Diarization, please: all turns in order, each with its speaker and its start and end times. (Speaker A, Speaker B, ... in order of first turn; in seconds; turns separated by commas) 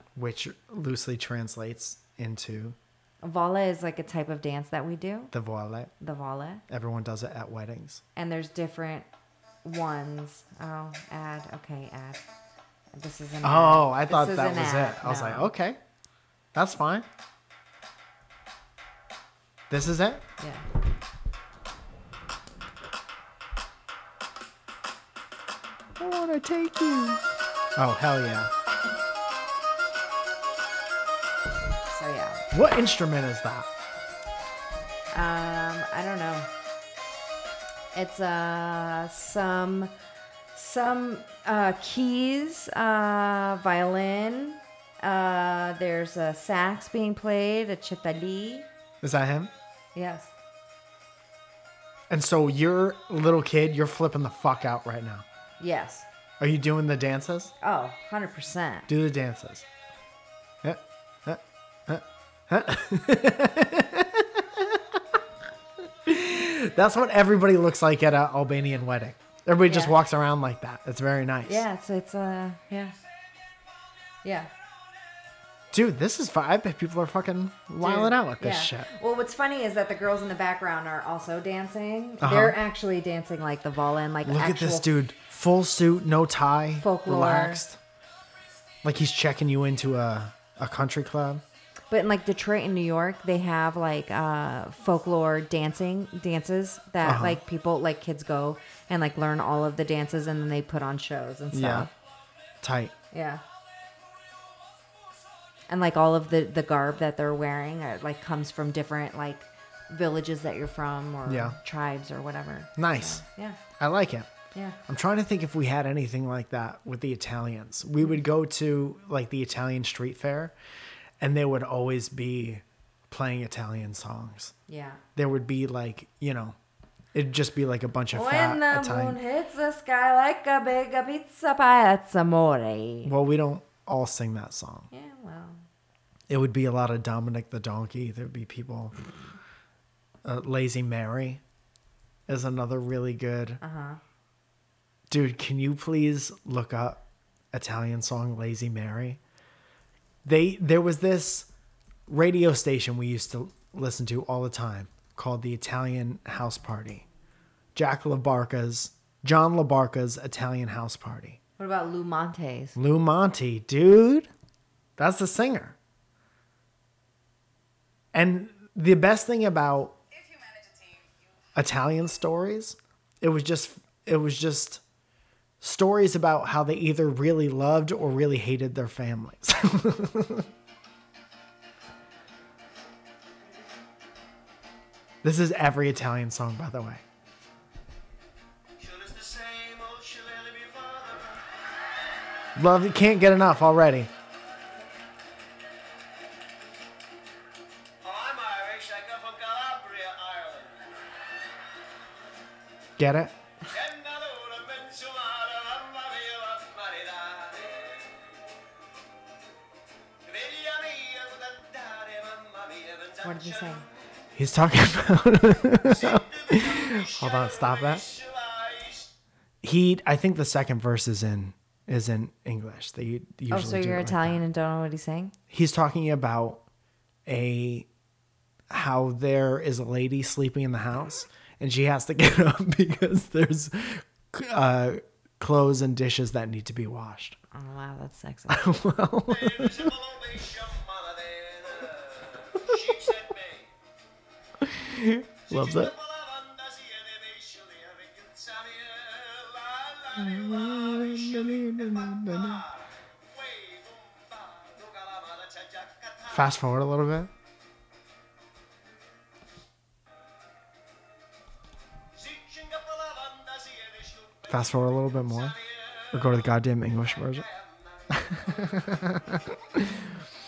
Speaker A: 0.2-2.8, Speaker B: 3.2-5.3, Speaker A: 5.3-5.9, Speaker B: 6.0-6.6, Speaker A: 6.7-8.0, Speaker B: 8.2-9.1, Speaker B: 9.6-12.3, Speaker B: 12.9-15.5, Speaker A: 13.4-15.8, Speaker A: 16.5-17.1, Speaker A: 19.7-20.2, Speaker A: 26.0-27.2, Speaker A: 27.8-28.5, Speaker B: 31.9-32.4, Speaker A: 32.5-33.7, Speaker B: 35.1-36.5, Speaker B: 37.9-39.9, Speaker B: 40.5-48.7, Speaker A: 49.0-49.5, Speaker B: 50.0-50.3, Speaker A: 52.1-55.2, Speaker B: 55.6-56.1, Speaker A: 56.4-57.5, Speaker B: 57.6-58.9, Speaker A: 58.9-59.6, Speaker A: 60.6-65.2, Speaker A: 66.0-71.7, Speaker B: 69.6-70.0, Speaker B: 71.5-73.0, Speaker B: 74.2-74.5, Speaker A: 75.7-78.9, Speaker B: 77.8-84.9, Speaker A: 82.2-82.6, Speaker A: 84.2-87.8, Speaker B: 86.8-87.6, Speaker A: 88.8-91.4, Speaker B: 91.9-101.9, Speaker A: 97.0-97.4, Speaker A: 101.5-101.9, Speaker A: 102.6-102.9, Speaker B: 103.1-103.4, Speaker B: 105.7-113.6, Speaker A: 111.3-111.6, Speaker A: 112.8-113.2, Speaker A: 113.8-114.3, Speaker B: 114.5-114.8, Speaker A: 114.9-120.5, Speaker A: 121.2-124.5, Speaker B: 124.7-125.0, Speaker A: 125.2-126.5, Speaker A: 127.1-129.2, Speaker B: 128.1-133.1, Speaker A: 133.0-134.9, Speaker B: 134.9-135.6, Speaker A: 136.3-138.9, Speaker A: 140.2-141.4, Speaker A: 142.3-143.6, Speaker B: 143.6-144.0, Speaker A: 145.1-149.2, Speaker A: 150.2-151.5, Speaker A: 152.1-157.1, Speaker A: 157.8-161.4, Speaker B: 161.6-162.8, Speaker A: 162.8-164.3, Speaker A: 165.0-165.8, Speaker A: 168.1-170.0, Speaker A: 171.6-174.8, Speaker A: 175.6-180.5, Speaker A: 185.2-187.0, Speaker C: 188.8-191.4, Speaker A: 192.6-194.1, Speaker C: 198.0-200.9, Speaker A: 203.0-203.3, Speaker C: 203.7-208.2, Speaker C: 210.2-213.9, Speaker B: 213.2-213.9, Speaker A: 214.3-218.1, Speaker C: 215.8-219.1, Speaker A: 219.6-224.4, Speaker B: 223.5-225.3, Speaker A: 225.5-226.6, Speaker A: 227.3-227.9, Speaker A: 228.7-237.4, Speaker B: 237.5-238.8, Speaker A: 238.5-239.9, Speaker C: 239.3-243.7, Speaker A: 242.6-243.0, Speaker A: 244.6-245.9, Speaker C: 245.5-256.6, Speaker A: 250.2-252.6, Speaker A: 256.3-257.3, Speaker C: 262.1-266.5, Speaker A: 264.5-265.6, Speaker A: 266.1-267.5, Speaker C: 267.0-269.4, Speaker A: 268.1-270.2